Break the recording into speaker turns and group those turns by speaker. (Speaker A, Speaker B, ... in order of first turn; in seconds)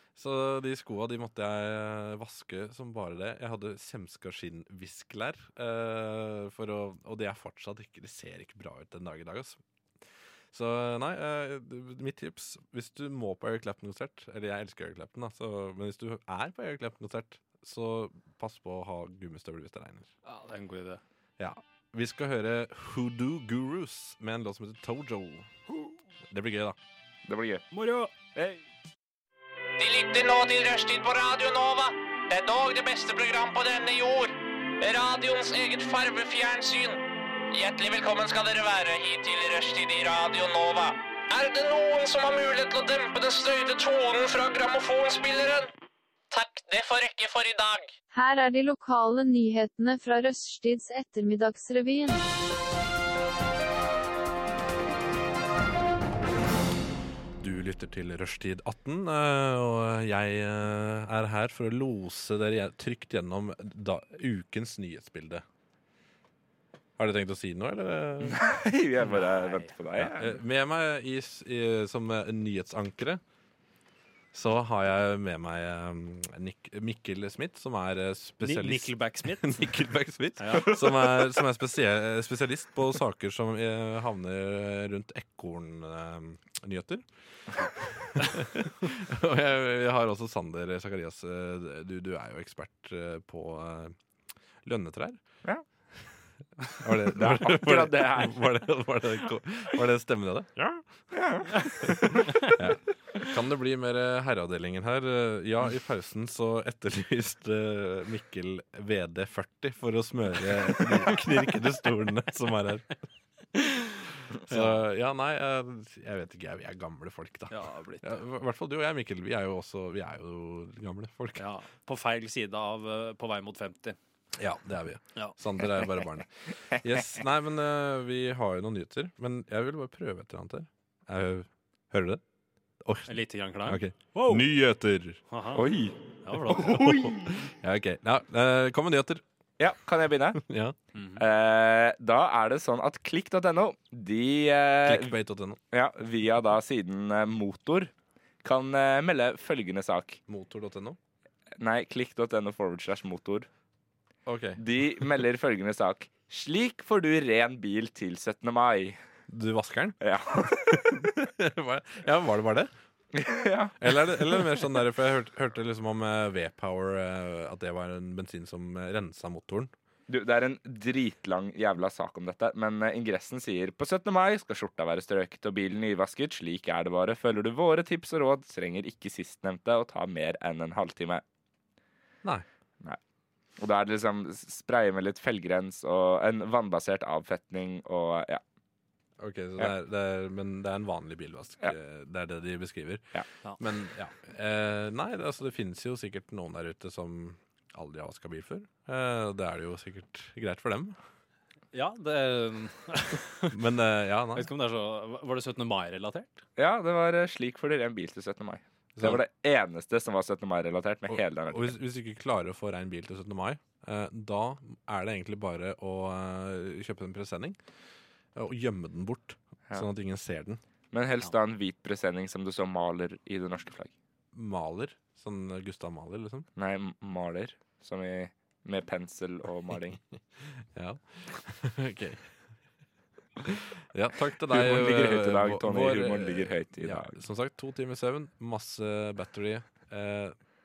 Speaker A: 0.2-9.6, 10.5-20.1, 21.4-25.5, 26.3-26.8, 57.4-65.5, 67.0-68.4, 70.0-73.2, 74.3-87.1, 87.6-94.0, 94.6-95.2, 96.7-100.8, 101.9-112.9, 114.4-121.5, 124.4-132.2, 132.8-135.2, 136.6-139.2, 140.3-140.8, 144.8-145.6, 150.3-151.0, 154.3-154.6, 159.3-162.7, 163.8-169.7, 189.2-201.0, 203.5-204.5, 211.1-217.6, 218.3-220.6, 224.3-226.5, 230.4-232.3, 233.4-240.4
Speaker B: 20.2-21.0, 27.7-28.1, 69.1-69.7, 78.4-79.7, 80.4-80.8, 110.8-111.2, 113.5-114.0, 117.5-118.2, 121.4-124.0, 133.1-134.5, 135.3-135.6, 136.2-136.9, 140.9-141.2, 201.7-203.6, 204.3-206.4
Speaker C: 27.3-27.6, 68.2-70.4, 97.1-98.6, 101.1-102.4, 135.6-136.0, 136.5-137.4, 139.6-140.4, 141.2-145.1, 145.7-147.9, 148.4-150.2, 151.6-153.5, 154.6-159.0, 160.0-161.1, 163.1-164.7, 170.1-181.2, 183.6-188.4, 206.6-211.8, 220.9-223.9, 226.6-230.0, 234.5-237.2
Speaker D: 29.8-45.7, 46.3-47.9
Speaker E: 48.1-52.2